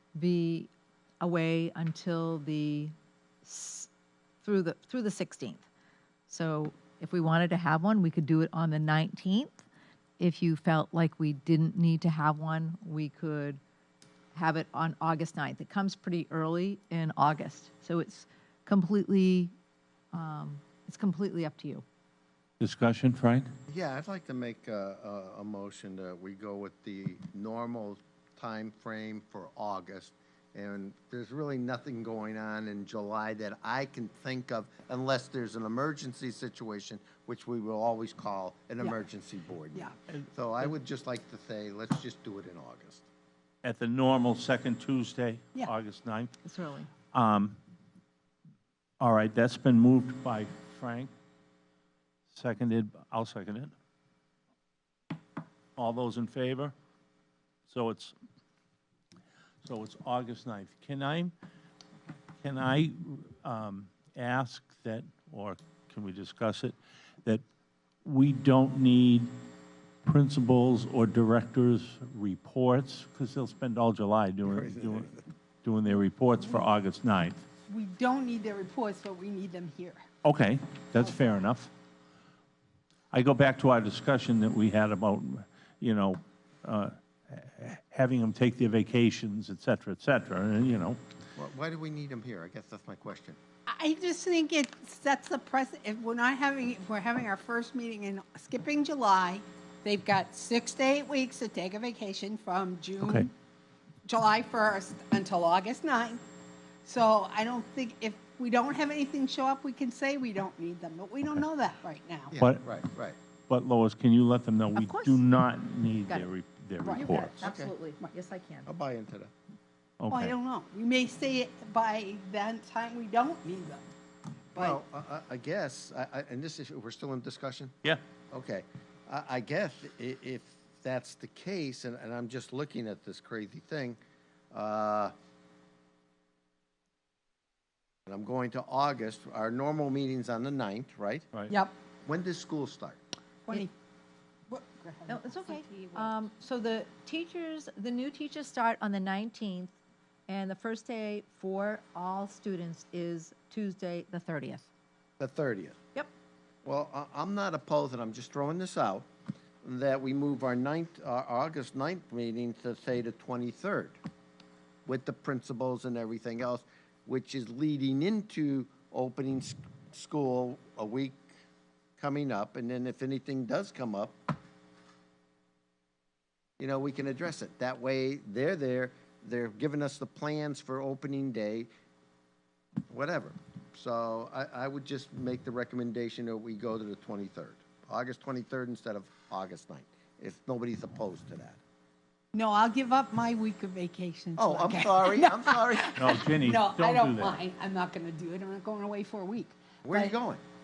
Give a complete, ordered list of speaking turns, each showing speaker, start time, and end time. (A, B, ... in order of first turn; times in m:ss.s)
0:00.2-0:03.9 A
0:04.4-0:05.6 A
0:06.3-0:09.6 A
0:10.2-0:13.6 A
0:14.3-0:19.5 A
0:20.1-0:21.8 A
0:22.6-0:23.5 B
0:23.7-0:43.1 C
0:43.6-0:46.4 B
0:46.4-0:46.9 A
0:47.1-0:47.6 B
0:49.0-0:51.1 B
0:52.3-0:53.7 B
0:55.8-0:56.7 B
0:57.7-0:58.2 B
0:59.6-1:01.3 B
1:02.4-1:07.4 B
1:08.0-1:09.4 B
1:10.0-1:17.4 B
1:14.5-1:15.1 C
1:17.7-1:20.1 D
1:20.2-1:21.7 B
1:23.1-1:31.0 B
1:31.4-1:33.4 C
1:33.7-1:43.3 D
1:43.0-1:43.3 B
1:44.1-1:46.2 D
1:46.8-1:52.3 D
1:52.3-1:53.2 C
1:52.4-1:52.6 B
1:53.5-1:57.4 B
1:54.8-1:55.2 A
1:56.8-1:57.3 D
1:56.9-1:58.7 A
1:57.4-1:57.7 C
1:58.7-1:59.3 C
2:00.0-2:00.4 B
2:00.1-2:03.9 D
2:04.6-2:07.8 C
2:08.3-2:14.0 C
2:14.5-2:15.1 C
2:18.1-2:21.3 C
2:21.5-2:21.8 D
2:22.0-2:23.0 C
2:23.5-2:23.7 D
2:24.5-2:26.1 D
2:25.1-2:29.8 A
2:30.3-2:34.7 A
2:35.2-2:35.8 C
2:36.6-2:39.1 C
2:39.6-2:44.0 C
2:44.9-2:51.3 C
2:52.0-2:54.2 C
2:56.6-3:01.7 C
3:02.9-3:11.6 C
3:12.3-3:20.1 D
3:14.4-3:16.2 C
3:16.0-3:17.4 B
3:19.8-3:20.4 C